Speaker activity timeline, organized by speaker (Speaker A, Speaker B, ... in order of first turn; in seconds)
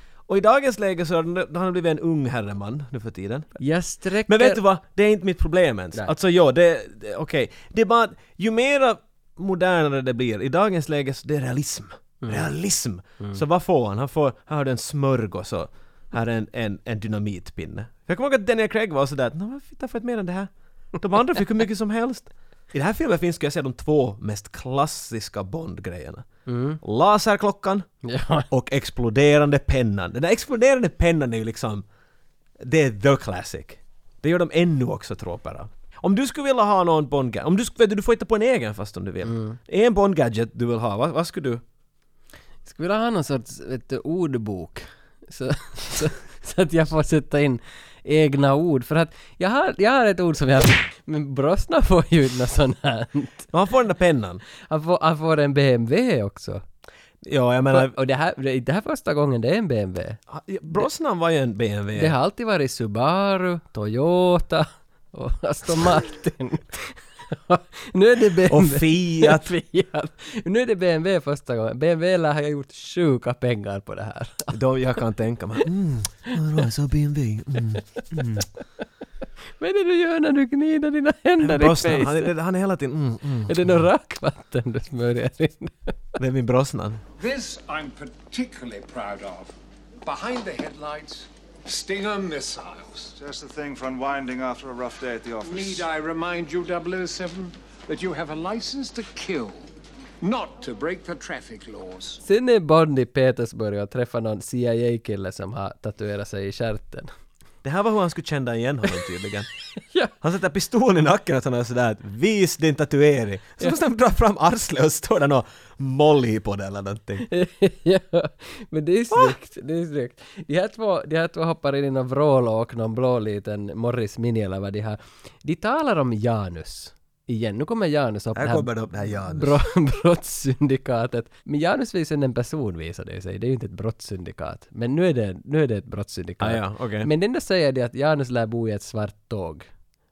Speaker A: 0.3-3.6, 4.3-26.3, 26.8-27.9, 28.5-31.9, 32.6-41.6, 53.5-54.4, 57.2-57.9, 60.3-62.1, 68.5-69.5, 74.5-78.4, 81.4-83.8, 86.2-87.0, 107.6-109.5, 110.2-117.2, 128.3-129.6, 136.4-137.1
Speaker B: 3.6-4.6, 26.4-26.8, 28.0-28.5, 39.2-39.6, 42.6-53.5, 54.6-56.6, 57.7-60.2, 62.0-74.5, 77.8-78.5, 79.6-82.3, 83.5-85.9, 102.2-107.1, 117.2-139.7
Speaker C: 87.2-93.1, 95.4-102.2
Speaker D: 93.2-95.9